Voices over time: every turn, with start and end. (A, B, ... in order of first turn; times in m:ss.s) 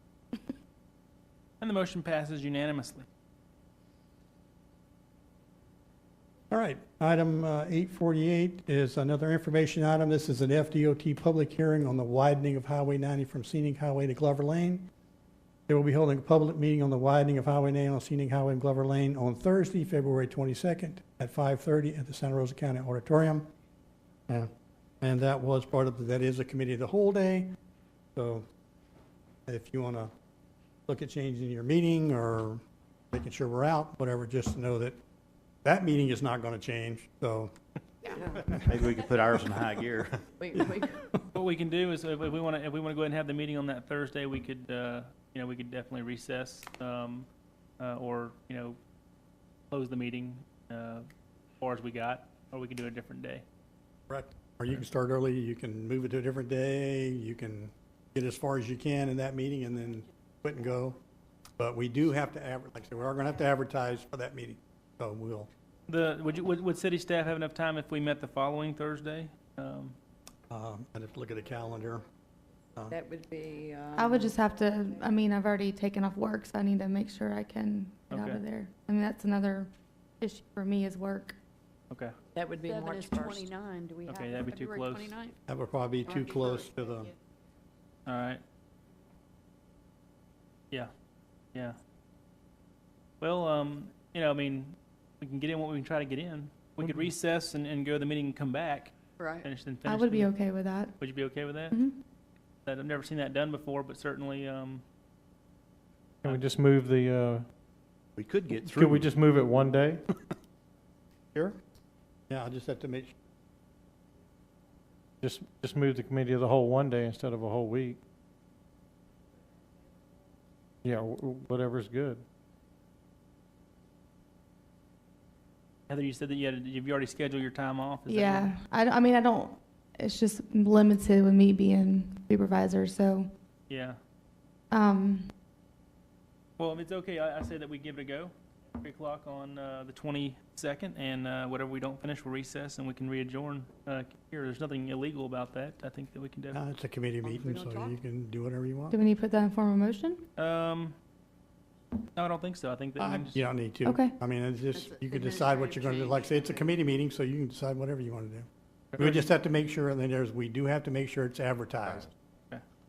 0:01.6-0:03.0 A
0:06.5-0:14.9 B
0:15.7-0:23.5 B
0:25.0-0:27.6 B
0:28.2-0:28.4 B
0:29.5-0:30.1 B
0:30.9-0:32.6 B
0:33.1-0:35.0 B
0:35.6-0:37.5 B
0:38.3-0:38.9 B
0:38.6-0:40.2 C
0:40.4-0:40.9 D
0:40.7-0:41.1 B
0:41.3-0:47.3 A
0:47.8-0:48.8 A
0:49.7-0:51.0 A
0:51.6-0:53.4 A
0:54.1-1:01.0 B
1:01.6-1:05.5 B
1:05.9-1:10.0 A
1:10.5-1:12.0 B
1:12.9-1:14.4 D
1:14.0-1:21.4 E
1:18.1-1:18.4 A
1:22.3-1:23.5 D
1:22.6-1:25.3 F
1:24.1-1:25.1 A
1:25.5-1:27.1 B
1:28.1-1:28.4 A
1:33.2-1:40.3 A
1:39.2-1:39.4 F
1:39.8-1:41.0 E
1:41.0-1:41.8 A
1:41.7-1:42.0 E
1:42.6-1:44.8 A
1:46.2-1:46.5 A
1:46.2-1:47.4 G
1:48.2-1:49.1 C
1:48.5-1:50.0 G
1:52.3-1:53.1 B
1:55.2-1:58.0 G
2:00.8-2:02.2 G
2:05.9-2:08.5 A
2:08.1-2:13.3 E
2:13.7-2:14.0 A
2:14.7-2:15.3 E
2:16.6-2:26.6 A
2:26.5-2:29.0 B
2:27.2-2:28.0 F
2:28.9-2:30.2 E
2:30.4-2:30.9 A
2:32.0-2:33.4 A
2:33.0-2:38.5 B
2:33.8-2:34.1 E
2:34.7-2:36.7 F
2:39.0-2:42.1 B